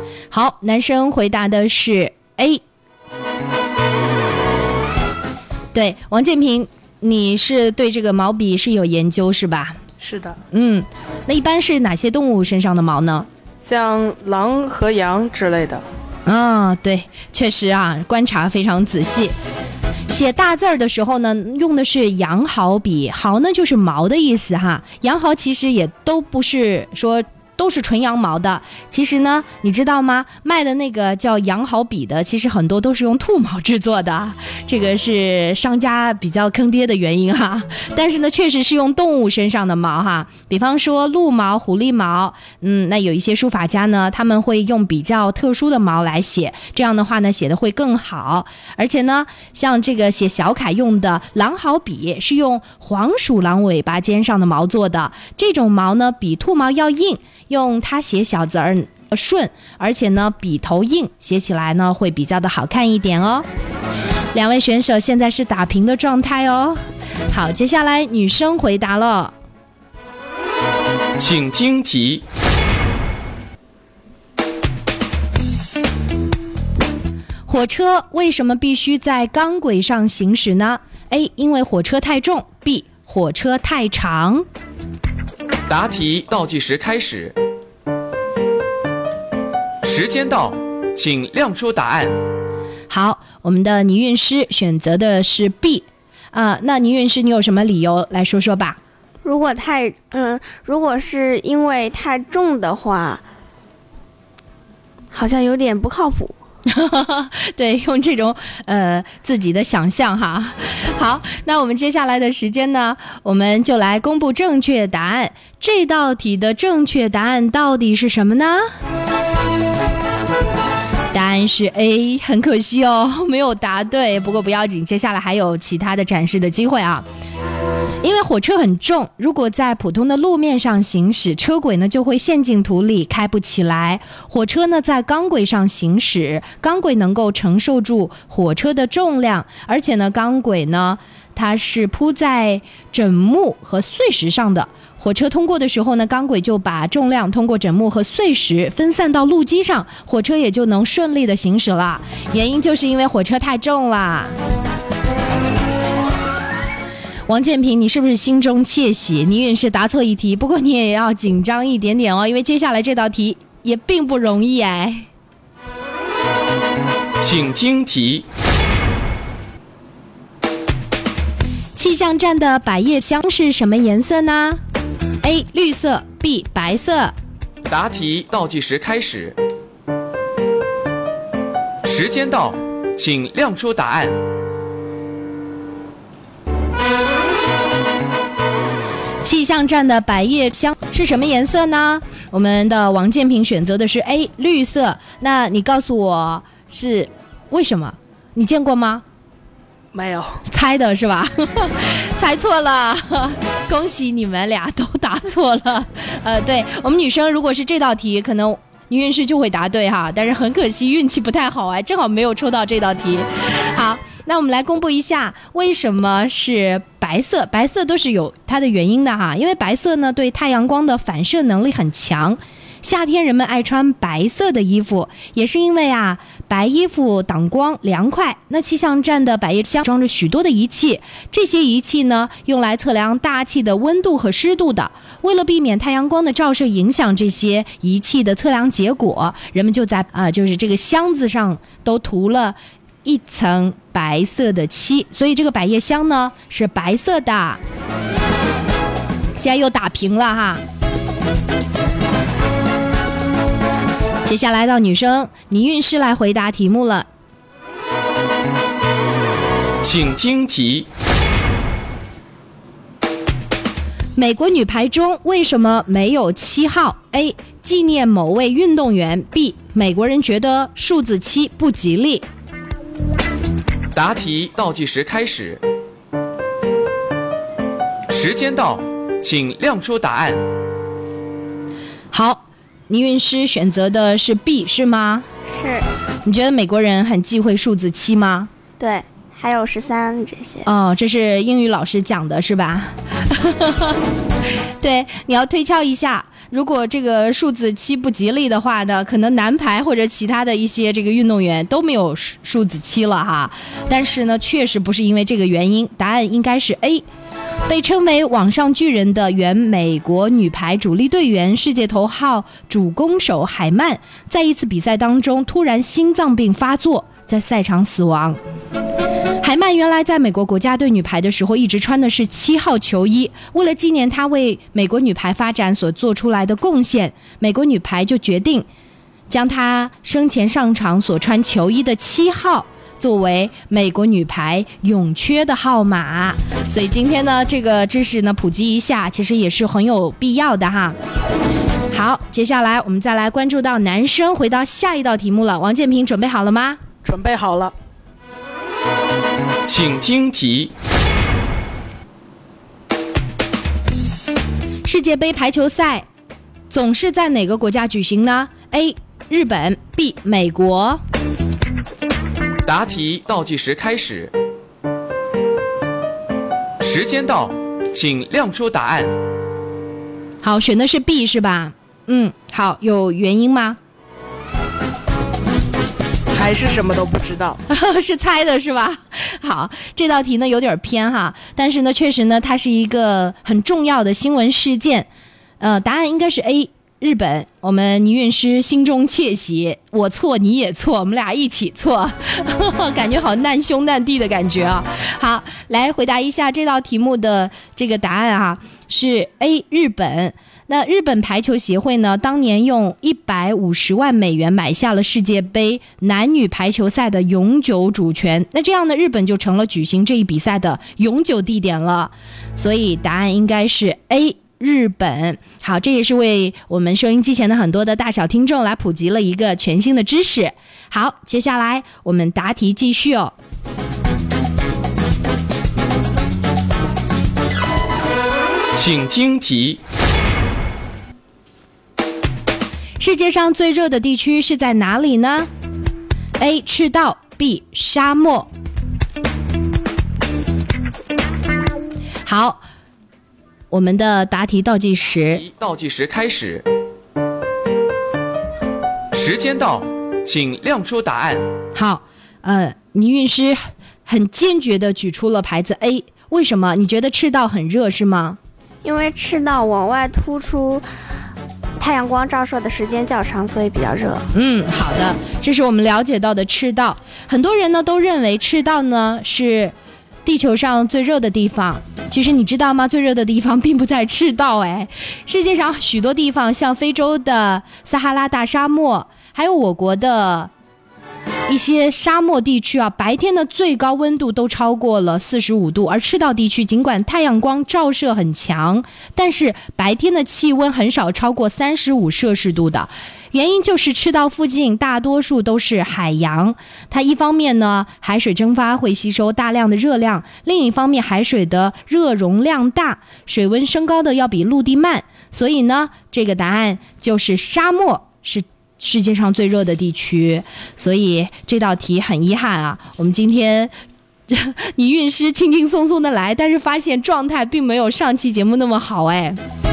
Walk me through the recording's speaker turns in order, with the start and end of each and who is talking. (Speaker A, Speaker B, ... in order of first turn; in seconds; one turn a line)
Speaker A: 0.3-2.6
Speaker A: 5.7-9.8
Speaker B: 10.0-10.4
Speaker A: 10.5-13.3
Speaker B: 13.6-15.8
Speaker A: 16.2-19.3
Speaker A: 20.1-63.5
Speaker A: 64.3-69.3
Speaker C: 71.2-72.2
Speaker A: 77.5-84.5
Speaker C: 85.7-87.3
Speaker C: 89.8-92.2
Speaker A: 92.9-98.8
Speaker D: 99.2-103.2
Speaker D: 105.1-106.3
Speaker A: 106.7-118.7
Speaker A: 121.1-127.0
Speaker A: 128.0-154.3
Speaker A: 157.3-165.1
Speaker C: 167.2-168.2
Speaker A: 171.8-174.6
Speaker A: 175.2-177.1
Speaker C: 177.7-179.3
Speaker C: 181.8-184.2
Speaker A: 189.2-199.0
Speaker B: 199.9-200.4
Speaker A: 200.4-247.6
Speaker A: 249.3-250.6
Speaker A: 254.2-257.1
Speaker C: 259.8-260.9
Speaker A: 264.1-272.2
Speaker C: 273.9-275.6
Speaker C: 278.1-280.4
Speaker A: 282.1-285.3
Speaker D: 285.5-285.8
Speaker A: 286.2-288.5
Speaker D: 288.8-290.7
Speaker A: 290.6-294.0
Speaker A: 294.8-307.0
Speaker A: 307.7-318.4
Speaker A: 319.4-328.7
Speaker A: 329.3-341.0
Speaker A: 341.9-346.8
Speaker B: 347.0-347.7
Speaker C: 349.6-350.7
Speaker A: 354.8-356.1
Speaker A: 356.7-361.0
Speaker C: 362.6-364.3
Speaker C: 366.8-369.1
Speaker A: 370.4-373.8
Speaker B: 376.3-377.6
Speaker A: 377.7-385.1
Speaker A: 385.6-423.3
Speaker C: 428.7-429.8
Speaker A: 433.0-435.5
Speaker A: 436.4-438.5
Speaker A: 442.2-442.6
Speaker A: 443.7-445.4
Speaker C: 445.2-446.6
Speaker C: 449.1-451.4
Speaker A: 451.7-458.4
Speaker D: 458.8-460.8
Speaker D: 461.8-464.3
Speaker A: 464.3-480.5
Speaker A: 481.5-513.7
Speaker A: 514.3-519.4